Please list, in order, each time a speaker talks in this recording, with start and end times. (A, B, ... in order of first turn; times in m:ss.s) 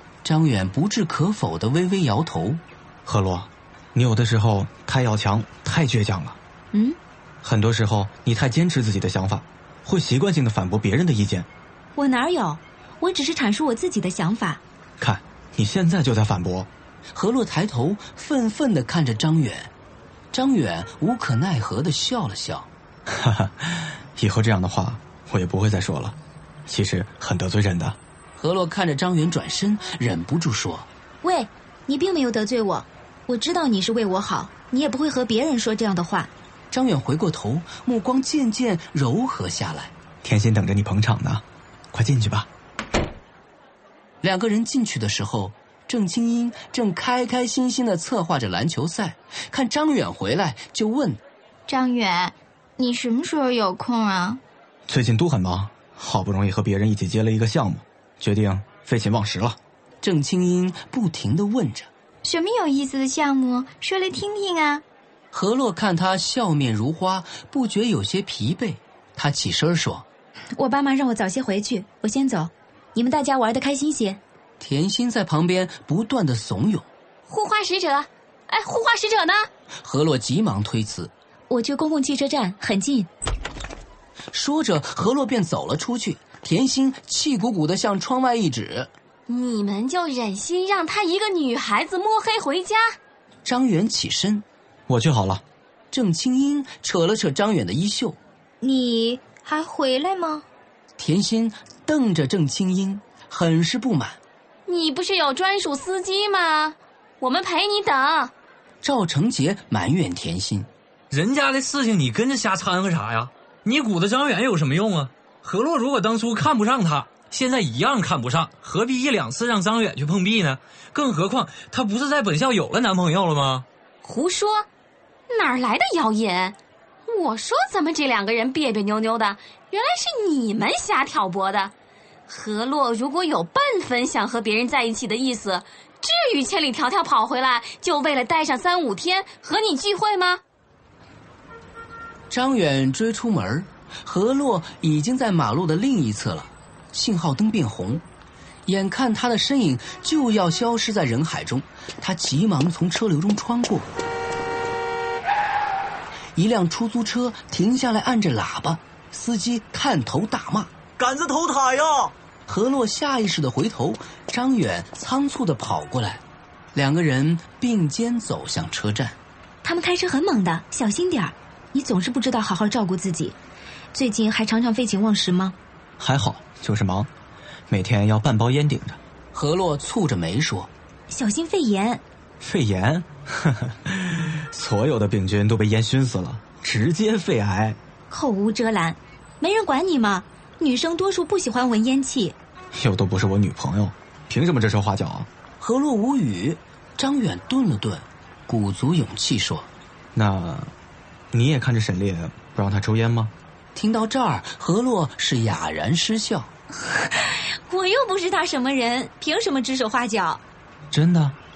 0:00.2-0:02.6 A
0:03.1-0:06.4 B
0:06.7-0:07.0 C
0:07.4-0:11.5 B
0:12.0-0:14.6 C
0:15.0-0:16.7 B
0:17.1-0:19.7 A
0:20.3-0:22.7 A
0:23.1-0:26.1 B
0:26.7-0:28.0 B
0:28.4-0:30.9 A
0:31.2-0:36.3 C
0:36.7-0:39.9 A
0:40.2-0:42.5 B
0:44.2-0:51.2 A
0:51.7-0:54.4 D
0:54.9-0:59.6 B
1:00.0-1:01.9 A
1:02.2-1:04.8 D
1:05.3-1:10.1 A
1:10.5-1:14.2 C
1:14.6-1:16.9 A
1:17.3-1:19.5 E
1:19.8-1:21.1 A
1:21.5-1:23.1 C
1:24.3-1:28.9 A
1:29.3-1:32.9 E
1:33.4-1:34.4 A
1:34.9-1:35.4 B
1:35.9-1:38.2 A
1:38.6-1:40.4 D
1:41.0-1:44.2 A
1:44.7-1:48.3 E
1:48.8-1:50.7 A
1:51.1-2:03.6 F
2:04.0-2:04.7 E
2:05.3-2:06.6 E
2:07.1-2:11.7 E
2:12.3-2:20.4 E
2:22.3-2:28.0 A
2:28.7-2:33.9 A
2:36.4-2:40.7 A
2:41.0-2:42.1 B
2:42.5-2:46.2 A
2:46.7-2:49.2 A
2:49.6-2:53.4 C
2:53.9-2:55.6 C
2:56.0-2:57.1 B
2:57.7-2:59.0 B
2:59.3-3:00.7 A
3:01.1-3:02.0 C
3:02.4-3:07.8 B
3:08.1-3:12.4 C
3:12.7-3:15.3 B
3:15.6-3:19.7 A
3:20.1-3:20.7 B
3:21.3-3:23.3 B
3:23.7-3:26.5 A
3:26.9-3:30.4 C
3:30.9-3:31.4 B